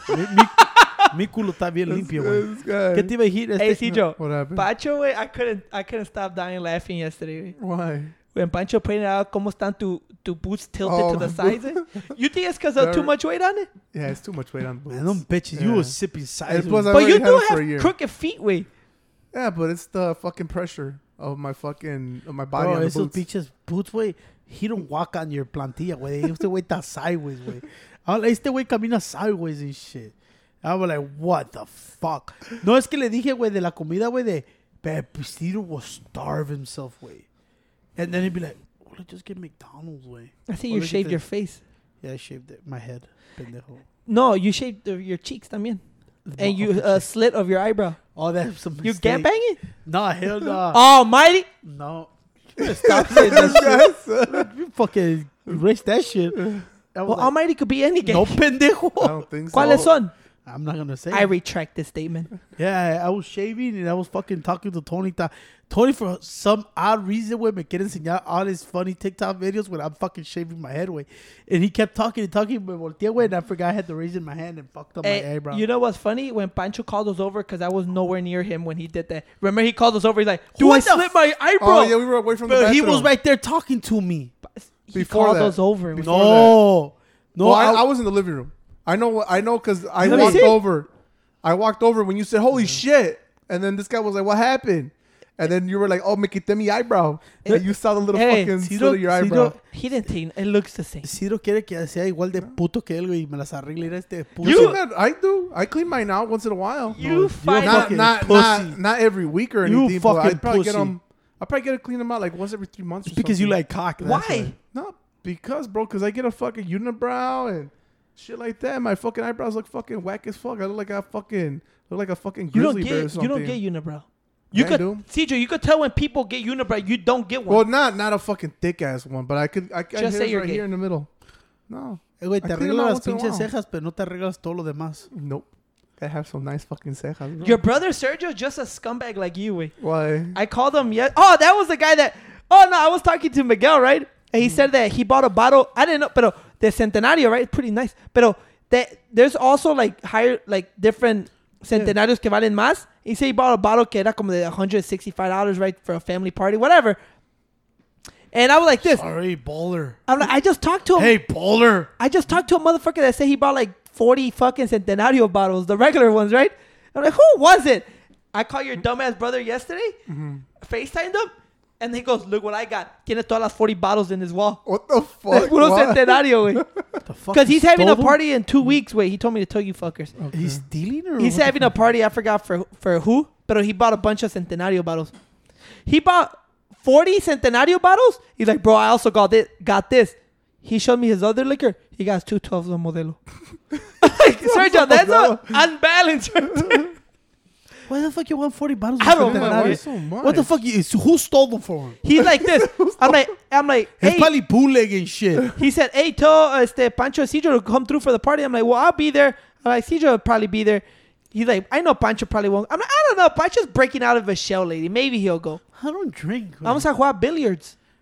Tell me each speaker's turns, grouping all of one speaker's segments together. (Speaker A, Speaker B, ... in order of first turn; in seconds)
Speaker A: 0.1-3.9, 14.9-17.0, 22.5-37.3, 38.0-41.2, 42.0-43.8, 46.2-47.1, 48.1-50.8, 51.6-57.3, 58.0-59.9, 60.4-61.3, 62.5-75.6, 80.5-81.1, 82.4-84.3, 86.0-87.8, 90.0-90.5, 98.6-99.6, 101.0-104.8, 107.4-108.8, 109.6-110.9, 113.0-114.3, 132.2-135.1, 158.8-160.0, 160.9-161.9, 177.0-178.2, 180.3-181.5, 197.9-202.0, 204.0-205.4, 215.8-216.8
Speaker B: 0.6-1.1, 3.6-7.6, 8.3-13.7, 16.9-18.7, 40.5-41.6, 44.0-45.8, 46.3-48.0, 48.8-49.6, 50.7-51.5, 52.8-53.7, 57.1-58.4, 59.5-60.1, 61.1-62.3, 75.0-82.0, 84.5-86.2, 90.0-90.6, 97.4-98.5, 99.7-101.1, 104.4-104.8, 106.9-107.9, 114.0-114.5, 122.5-127.6, 129.9-130.6, 137.4-139.8, 140.3-157.0, 158.3-159.0, 160.1-161.2, 162.0-169.9, 170.6-174.6, 175.3-176.6, 177.3-180.1, 181.2-185.1, 185.8-193.3, 194.0-196.9, 199.0-199.8, 202.0-204.3, 205.6-215.6, 216.6-217.7
Speaker C: 1.9-3.1, 3.9-4.7, 7.6-8.1, 10.8-12.1, 12.8-13.1, 13.9-17.9, 19.3-23.2, 52.6-54.5, 56.3-56.6, 59.0-59.9, 81.6-83.1, 84.9-86.6, 87.4-90.9, 91.4-99.6, 104.4-123.6, 124.5-125.0, 127.5-133.5, 135.1-137.6, 139.8-140.4, 170.1-170.4, 174.7-177.0, 180.2-180.6, 194.4-195.6, 196.5-196.8, 199.1-200.5, 202.2-203.2